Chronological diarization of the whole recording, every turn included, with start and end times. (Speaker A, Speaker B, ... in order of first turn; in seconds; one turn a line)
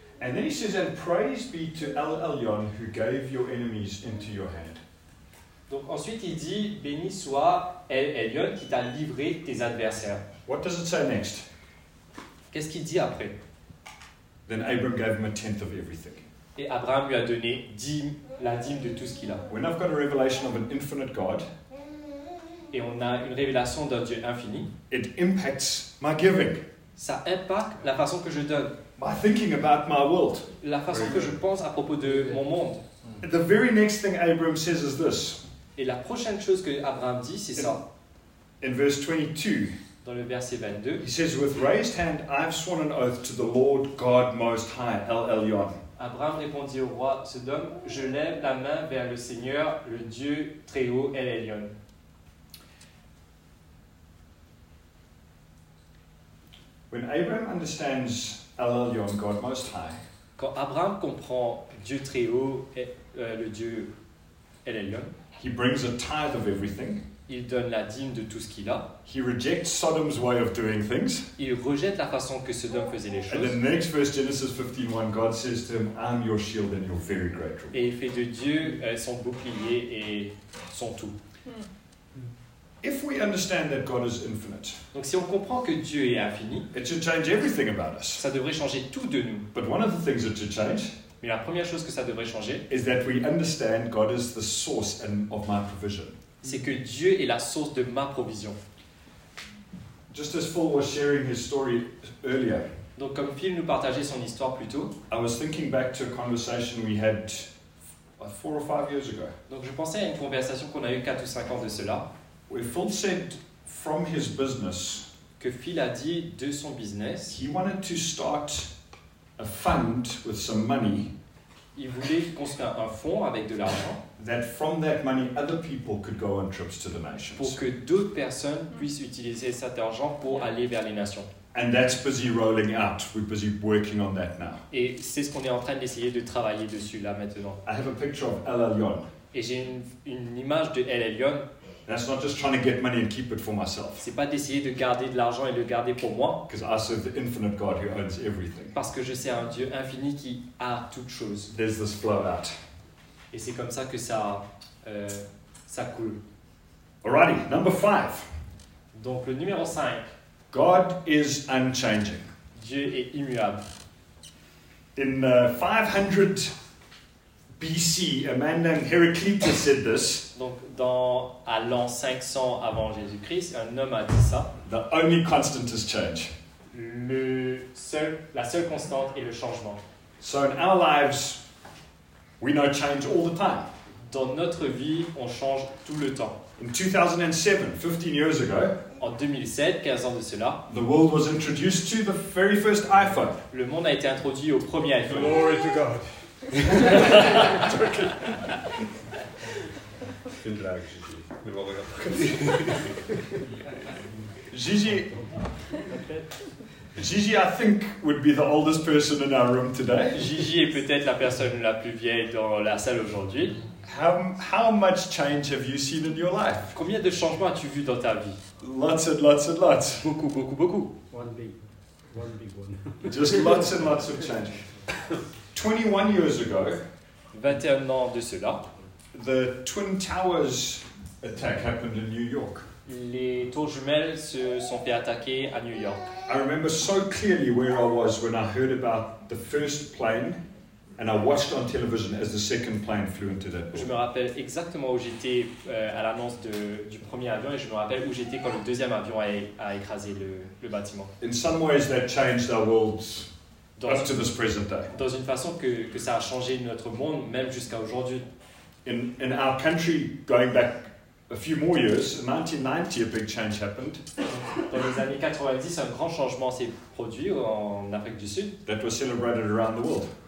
Speaker A: 0.2-4.8
Speaker B: 5.7-10.3
Speaker A: 10.5-11.4
Speaker B: 12.5-13.4
Speaker A: 14.5-16.2
Speaker B: 16.6-19.4
Speaker A: 19.5-21.5
Speaker B: 22.7-24.7
Speaker A: 24.9-26.6
Speaker B: 27.0-28.8
Speaker A: 29.0-31.1
Speaker B: 30.6-32.8
Speaker A: 33.2-35.4
Speaker B: 35.8-37.8
Speaker A: 38.6-39.7
Speaker B: 40.0-41.0
Speaker A: 41.0-45.8
Speaker B: 46.0-51.7
Speaker A: 56.9-60.0
Speaker B: 60.4-63.9
Speaker B: 64.7-65.1
Speaker A: 65.4-67.0
Speaker B: 67.3-68.9
Speaker A: 69.1-71.3
Speaker B: 71.4-73.6
Speaker A: 73.3-77.8
Speaker B: 77.7-81.2
Speaker A: 82.8-84.8
Speaker B: 84.9-86.7
Speaker A: 86.7-88.2
Speaker B: 88.2-89.5
Speaker A: 89.5-91.0
Speaker B: 91.2-92.7
Speaker A: 92.7-96.2
Speaker B: 96.4-98.6
Speaker A: 100.1-102.7
Speaker B: 103.0-105.0
Speaker A: 105.1-107.5
Speaker A: 108.2-109.3
Speaker B: 109.5-112.1
Speaker A: 112.5-115.1
Speaker B: 115.4-117.4
Speaker A: 117.3-118.7
Speaker A: 119.4-121.1
Speaker B: 121.8-124.0
Speaker A: 124.2-127.6
Speaker B: 127.4-131.3
Speaker A: 131.5-134.6
Speaker B: 134.7-137.6
Speaker A: 137.7-139.1
Speaker B: 139.3-141.5
Speaker A: 141.9-144.0
Speaker B: 144.0-146.5
Speaker A: 146.5-148.7
Speaker B: 148.7-151.5
Speaker A: 151.5-152.6
Speaker B: 153.3-156.2
Speaker A: 157.0-158.3
Speaker B: 158.9-160.1
Speaker A: 160.5-162.3
Speaker B: 162.6-163.7
Speaker A: 165.0-166.5
Speaker A: 167.6-170.3
Speaker B: 170.3-174.5
Speaker A: 174.7-176.3
Speaker B: 176.7-179.8
Speaker A: 180.2-181.4
Speaker A: 182.4-183.7
Speaker B: 184.1-186.4
Speaker A: 186.6-188.8
Speaker B: 189.0-190.6
Speaker A: 190.7-193.4
Speaker B: 193.5-195.5
Speaker C: 195.1-198.1
Speaker C: 200.4-202.9
Speaker A: 204.5-205.1
Speaker D: 205.1-206.4
Speaker A: 207.0-210.2
Speaker B: 210.1-213.6
Speaker A: 213.8-216.7
Speaker B: 216.7-218.4
Speaker A: 218.6-220.1
Speaker B: 220.0-220.9
Speaker D: 221.1-223.2
Speaker A: 223.0-224.6
Speaker A: 225.5-226.8
Speaker B: 227.3-228.7
Speaker A: 229.1-232.7
Speaker B: 232.9-236.1
Speaker A: 236.3-240.4
Speaker A: 241.0-243.9
Speaker B: 243.7-251.1
Speaker A: 251.2-253.3
Speaker B: 253.8-254.2
Speaker A: 253.9-254.9
Speaker B: 254.9-258.3
Speaker A: 258.9-264.0
Speaker B: 264.3-268.6
Speaker A: 268.7-270.1